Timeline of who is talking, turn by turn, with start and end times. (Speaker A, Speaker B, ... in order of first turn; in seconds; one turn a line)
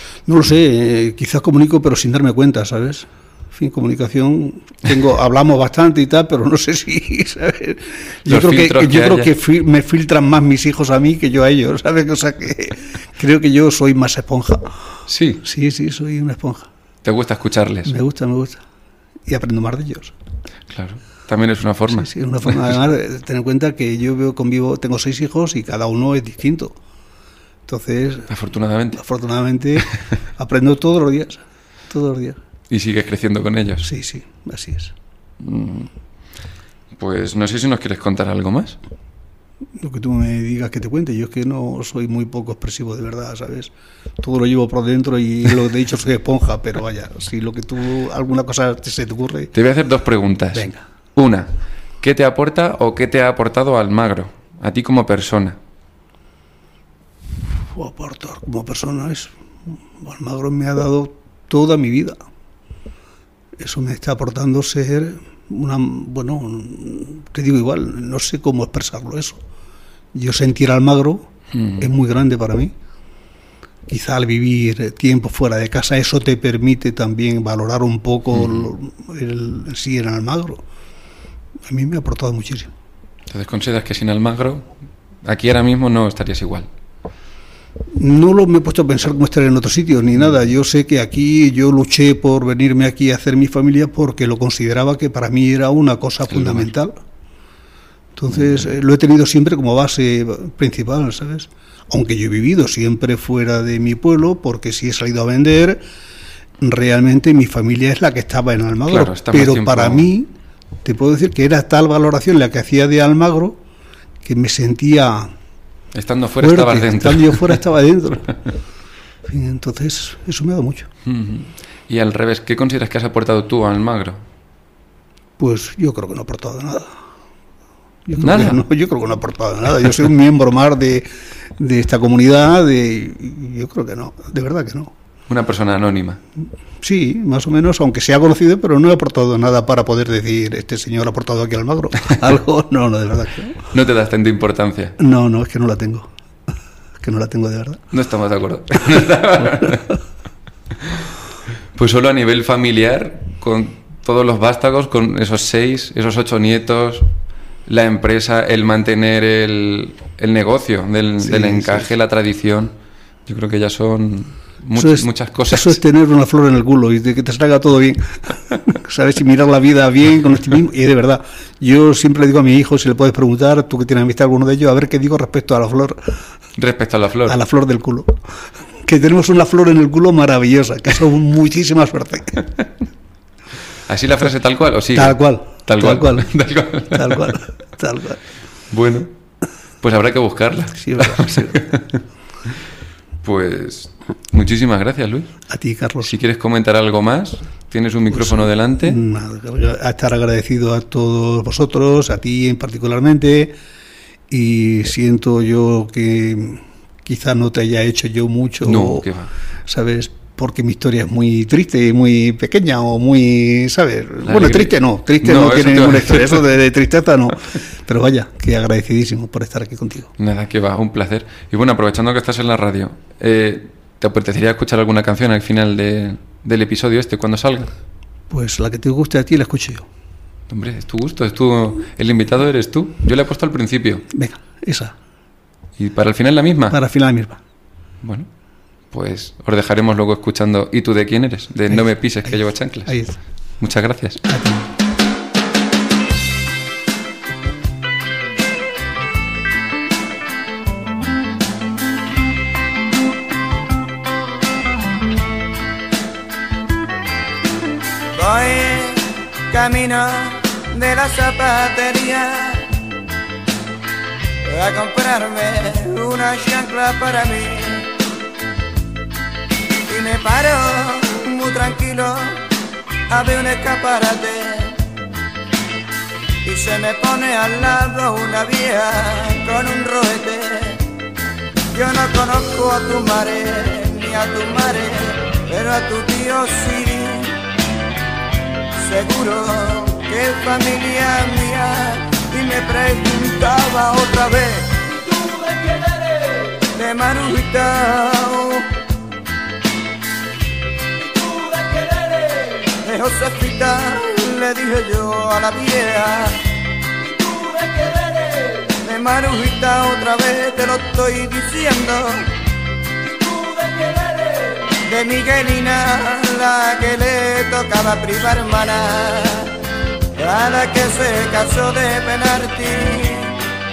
Speaker A: 0.3-14.7
Speaker B: 8.3-9.3
Speaker B: 15.1-15.4
Speaker A: 15.4-16.7
Speaker B: 17.0-18.0
Speaker A: 17.9-18.6
Speaker A: 19.3-20.1
Speaker B: 20.7-22.5
Speaker A: 21.9-26.8
Speaker A: 27.7-28.3
Speaker B: 28.3-29.0
Speaker A: 29.0-32.4
Speaker B: 32.7-33.9
Speaker A: 33.8-34.9
Speaker B: 35.4-35.9
Speaker B: 36.9-38.8
Speaker A: 39.8-49.5
Speaker B: 49.5-55.6
Speaker A: 50.5-50.8
Speaker A: 57.7-62.2
Speaker A: 63.6-69.4
Speaker A: 70.1-72.7
Speaker B: 71.5-71.8
Speaker A: 73.9-80.6
Speaker B: 78.3-78.7
Speaker A: 81.7-82.7
Speaker B: 83.3-84.7
Speaker B: 85.2-86.7
Speaker A: 88.0-97.0
Speaker B: 96.3-96.7
Speaker A: 98.2-105.8
Speaker B: 98.3-98.6
Speaker A: 106.6-110.3
Speaker B: 108.9-110.1
Speaker A: 110.8-113.6
Speaker A: 114.2-115.3
Speaker B: 115.9-117.6
Speaker A: 116.4-118.4
Speaker A: 119.2-120.9
Speaker B: 121.0-124.2
Speaker A: 125.4-127.0
Speaker A: 128.1-134.9
Speaker B: 128.2-128.6
Speaker B: 135.3-136.2
Speaker A: 136.8-143.6
Speaker B: 143.7-145.0
Speaker A: 145.0-146.1
Speaker A: 147.0-147.8
Speaker B: 147.9-149.9
Speaker B: 150.8-151.1
Speaker B: 151.7-157.1
Speaker B: 157.7-162.7
Speaker A: 161.2-161.9
Speaker B: 163.3-165.8
Speaker A: 164.8-176.2
Speaker B: 176.6-177.4
Speaker A: 177.3-178.2
Speaker A: 178.8-182.5
Speaker B: 183.9-187.3
Speaker A: 184.9-186.3
Speaker A: 186.8-188.2
Speaker B: 188.7-189.1
Speaker B: 189.8-192.0
Speaker A: 190.8-191.7
Speaker B: 193.2-195.3
Speaker A: 195.5-196.1
Speaker B: 196.0-199.0
Speaker A: 198.1-203.6
Speaker A: 204.3-209.1
Speaker B: 208.6-209.3
Speaker A: 209.7-220.1
Speaker B: 214.2-216.4
Speaker B: 220.2-227.7
Speaker A: 228.3-229.9
Speaker B: 230.5-234.1
Speaker A: 234.1-234.9
Speaker B: 235.8-236.8
Speaker A: 236.7-237.4
Speaker B: 238.0-238.3
Speaker B: 238.9-243.0
Speaker A: 241.7-243.2
Speaker B: 243.6-244.2
Speaker A: 244.2-244.7
Speaker C: 258.1-262.7
Speaker C: 264.4-267.9
Speaker C: 269.9-272.4
Speaker C: 273.1-274.8
Speaker C: 276.4-280.9
Speaker C: 281.7-287.4
Speaker C: 288.8-295.1
Speaker C: 296.6-298.7
Speaker C: 302.7-306.4
Speaker C: 308.7-312.3
Speaker C: 314.7-319.5
Speaker C: 320.1-323.4